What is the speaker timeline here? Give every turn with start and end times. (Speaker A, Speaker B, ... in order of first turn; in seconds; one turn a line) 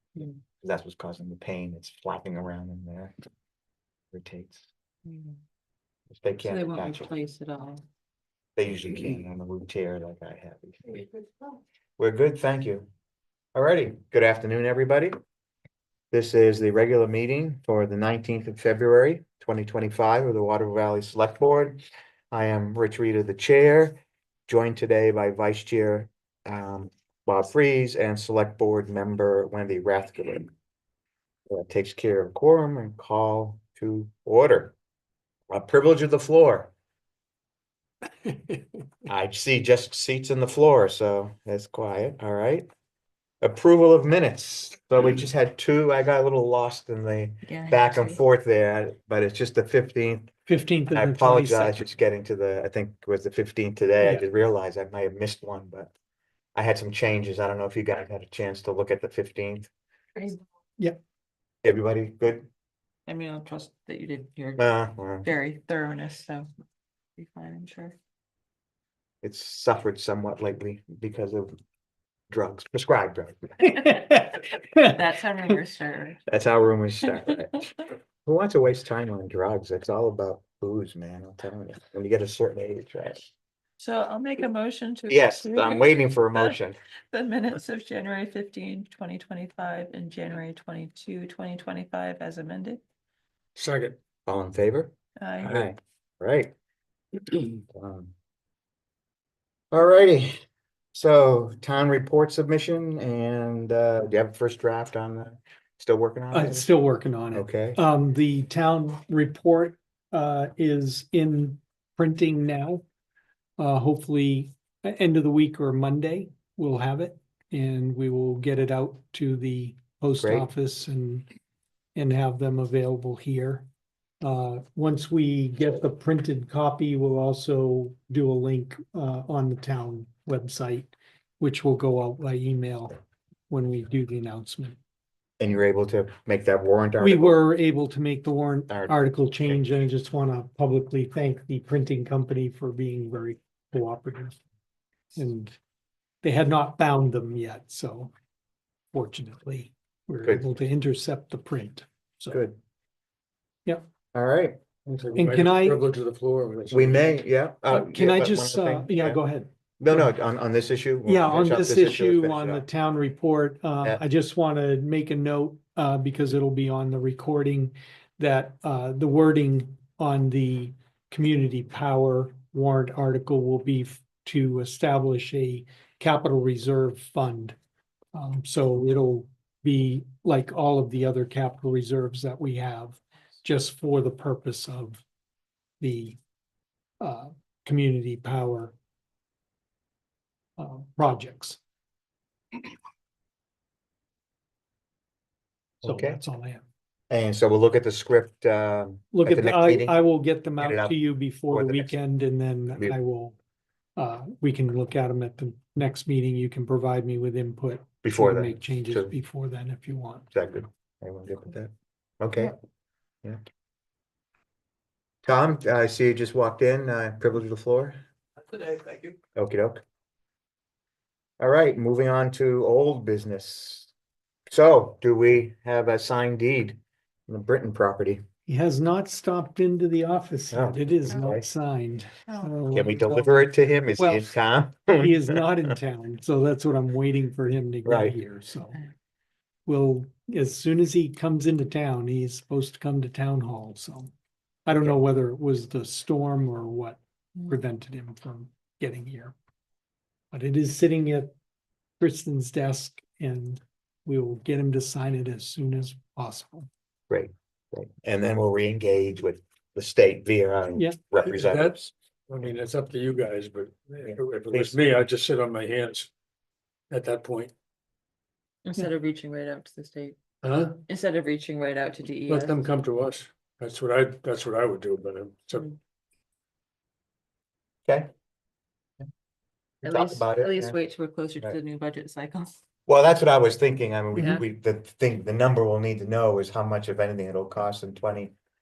Speaker A: 0.6-3.1
Speaker A: 4.1-4.7
Speaker B: 5.1-5.4
Speaker A: 6.1-7.1
Speaker B: 6.4-7.8
Speaker A: 8.6-11.1
Speaker A: 12.0-12.9
Speaker A: 13.6-15.1
Speaker A: 16.1-30.5
Speaker A: 31.5-34.7
Speaker A: 35.5-36.7
Speaker C: 38.2-38.7
Speaker A: 39.1-42.7
Speaker A: 43.4-50.3
Speaker B: 47.5-48.2
Speaker C: 50.5-51.9
Speaker A: 50.9-55.9
Speaker A: 56.5-59.7
Speaker A: 61.6-62.5
Speaker B: 63.1-64.7
Speaker A: 64.6-65.3
Speaker B: 65.2-66.5
Speaker B: 67.2-68.0
Speaker A: 69.2-71.5
Speaker A: 72.3-73.8
Speaker C: 73.6-75.0
Speaker B: 74.8-76.2
Speaker A: 76.3-77.7
Speaker A: 78.2-83.3
Speaker B: 83.8-86.6
Speaker A: 85.1-86.8
Speaker B: 87.1-92.8
Speaker D: 93.6-94.0
Speaker A: 94.3-95.0
Speaker B: 95.2-95.6
Speaker D: 95.4-95.7
Speaker A: 95.5-96.5
Speaker A: 97.7-98.1
Speaker A: 99.7-100.3
Speaker A: 100.9-106.7
Speaker C: 106.3-112.8
Speaker A: 107.3-107.8
Speaker C: 113.6-121.3
Speaker A: 120.2-120.5
Speaker C: 122.0-123.7
Speaker C: 124.2-133.0
Speaker C: 133.5-134.8
Speaker A: 135.4-137.4
Speaker C: 137.0-144.4
Speaker A: 138.7-139.6
Speaker C: 145.2-145.6
Speaker C: 146.2-148.1
Speaker C: 148.9-152.4
Speaker A: 152.3-152.6
Speaker A: 154.1-154.6
Speaker D: 154.9-157.2
Speaker C: 155.2-155.8
Speaker A: 156.7-159.2
Speaker C: 157.7-160.1
Speaker A: 159.8-162.6
Speaker C: 161.1-177.6
Speaker C: 178.1-185.0
Speaker C: 185.8-186.2
Speaker C: 187.0-188.7
Speaker C: 190.6-191.6
Speaker A: 195.8-196.2
Speaker C: 195.8-196.7
Speaker A: 197.1-200.0
Speaker C: 199.1-203.3
Speaker A: 200.6-201.0
Speaker A: 201.5-201.9
Speaker C: 204.0-210.3
Speaker A: 208.0-209.1
Speaker A: 210.3-212.6
Speaker A: 215.3-218.0
Speaker A: 219.3-219.8
Speaker A: 221.4-223.9
Speaker A: 224.5-228.2
Speaker C: 228.5-234.4
Speaker A: 230.5-231.4
Speaker B: 232.3-232.5
Speaker A: 232.7-235.4
Speaker C: 235.0-238.8
Speaker A: 237.8-238.2
Speaker C: 239.7-244.1
Speaker C: 244.7-249.3
Speaker C: 250.3-251.3
Speaker C: 252.0-256.7
Speaker A: 257.1-261.9
Speaker D: 261.2-266.1
Speaker A: 264.1-264.8
Speaker D: 266.9-267.5
Speaker B: 268.6-270.2
Speaker D: 270.4-270.8
Speaker B: 270.9-272.6
Speaker D: 272.3-275.6
Speaker B: 279.8-282.6
Speaker A: 279.8-280.8
Speaker A: 282.9-288.3
Speaker B: 284.1-284.4